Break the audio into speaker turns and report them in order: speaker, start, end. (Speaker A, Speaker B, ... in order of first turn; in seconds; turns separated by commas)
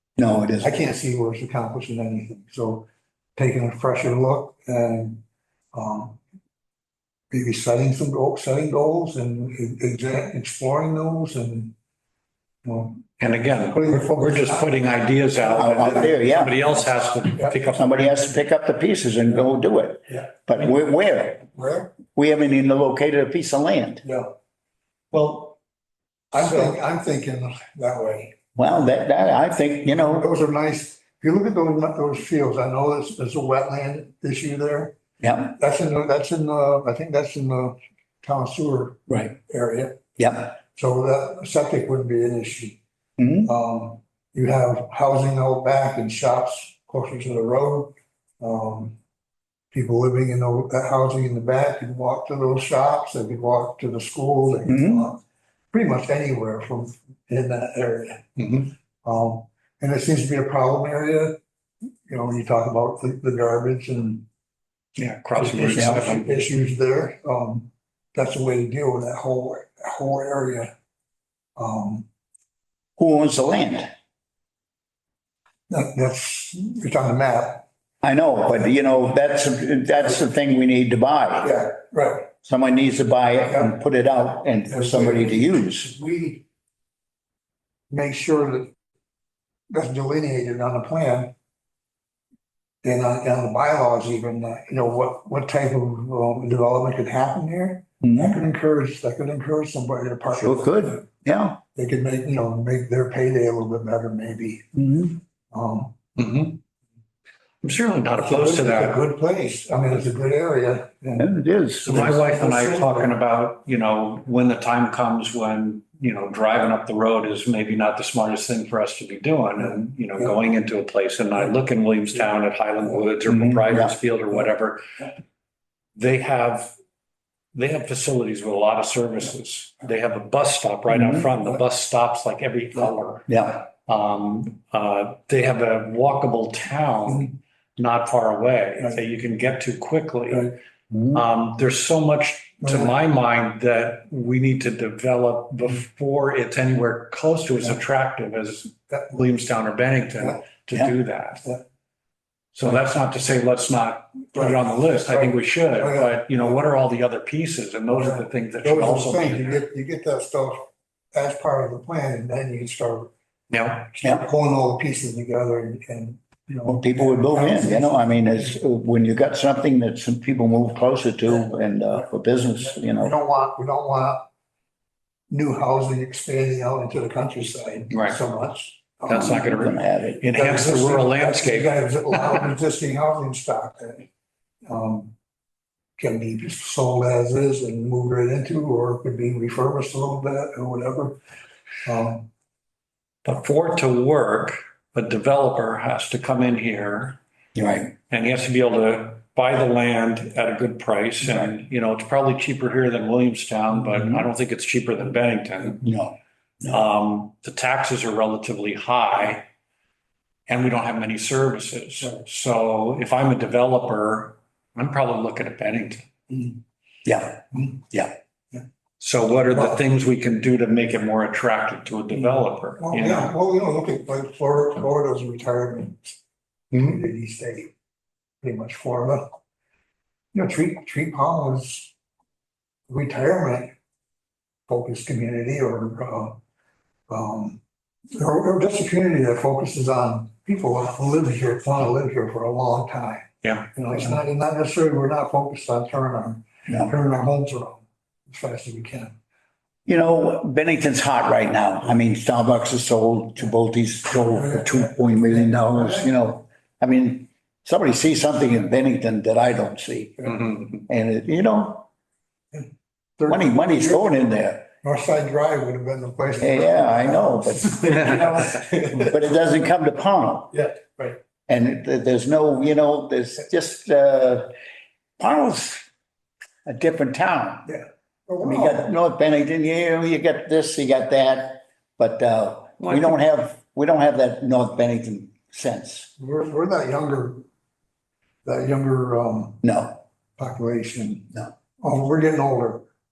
Speaker A: 0.2-0.7, Speaker B: 0.6-5.2, Speaker B: 5.7-6.2, Speaker B: 7.3-11.7, Speaker B: 12.6-13.1, Speaker C: 13.2-18.2, Speaker B: 13.7-14.7, Speaker A: 15.4-16.6, Speaker B: 15.7-17.7, Speaker A: 17.8-21.4, Speaker B: 21.5-21.9, Speaker A: 22.1-24.0, Speaker B: 24.0-24.3, Speaker C: 25.1-25.6, Speaker B: 26.3-28.4, Speaker A: 28.6-30.3, Speaker B: 29.9-40.0, Speaker A: 35.2-35.5, Speaker A: 40.2-40.5, Speaker B: 40.7-42.8, Speaker A: 43.2-43.5, Speaker B: 43.4-49.0, Speaker B: 49.7-55.2, Speaker A: 54.6-55.1, Speaker B: 55.7-61.4, Speaker C: 58.4-58.7, Speaker B: 62.1-64.2, Speaker C: 65.0-66.4, Speaker B: 65.3-70.7, Speaker B: 71.6-72.0, Speaker A: 73.0-73.9, Speaker B: 75.7-77.7, Speaker A: 78.0-81.6, Speaker B: 81.4-82.3, Speaker A: 82.3-85.9, Speaker B: 84.7-86.4, Speaker B: 87.9-88.7, Speaker B: 89.7-91.3, Speaker B: 92.8-101.0, Speaker A: 98.0-98.4, Speaker A: 100.3-101.6, Speaker B: 101.7-104.7, Speaker A: 104.7-105.2, Speaker B: 105.5-105.9, Speaker C: 106.2-106.6, Speaker C: 107.6-109.0, Speaker B: 108.2-111.3, Speaker A: 111.2-112.1, Speaker B: 111.8-113.1, Speaker C: 111.8-124.8, Speaker A: 123.3-123.9, Speaker C: 126.0-126.7, Speaker C: 127.5-140.5, Speaker A: 130.9-131.3, Speaker A: 133.3-133.6, Speaker A: 140.9-141.2, Speaker C: 141.1-151.4, Speaker B: 142.6-142.9, Speaker C: 152.5-159.6, Speaker B: 154.3-156.6, Speaker B: 157.9-163.1, Speaker C: 163.5-163.9, Speaker B: 163.9-168.6, Speaker A: 166.7-173.1, Speaker B: 171.3-172.1, Speaker B: 172.6-174.3, Speaker B: 175.3-179.5, Speaker C: 177.9-178.2, Speaker C: 179.1-182.4, Speaker A: 179.1-180.2, Speaker B: 180.3-184.1, Speaker B: 184.7-185.1, Speaker B: 186.0-191.2, Speaker B: 191.8-192.3, Speaker C: 193.2-197.2, Speaker A: 197.5-197.9, Speaker C: 198.0-205.8, Speaker A: 203.8-204.3, Speaker A: 205.8-206.8, Speaker C: 206.7-209.5, Speaker C: 210.5-216.1, Speaker A: 217.0-218.1, Speaker C: 219.0-223.3, Speaker B: 222.8-226.2, Speaker B: 226.7-227.7, Speaker B: 228.4-229.3, Speaker B: 230.3-231.9, Speaker B: 232.9-233.7, Speaker B: 234.7-236.4, Speaker B: 237.1-237.6, Speaker B: 238.1-249.1, Speaker C: 243.4-243.7, Speaker A: 249.9-261.9, Speaker B: 254.1-256.1, Speaker B: 263.2-264.2, Speaker A: 263.3-264.7, Speaker B: 264.8-269.1, Speaker A: 266.4-270.5, Speaker B: 270.5-271.2, Speaker A: 271.5-274.5, Speaker A: 275.2-275.9, Speaker A: 276.6-277.7, Speaker B: 277.6-278.9, Speaker A: 278.4-286.1, Speaker C: 282.8-283.1, Speaker B: 286.2-287.4, Speaker B: 288.4-289.6, Speaker A: 289.6-290.0, Speaker B: 290.4-292.9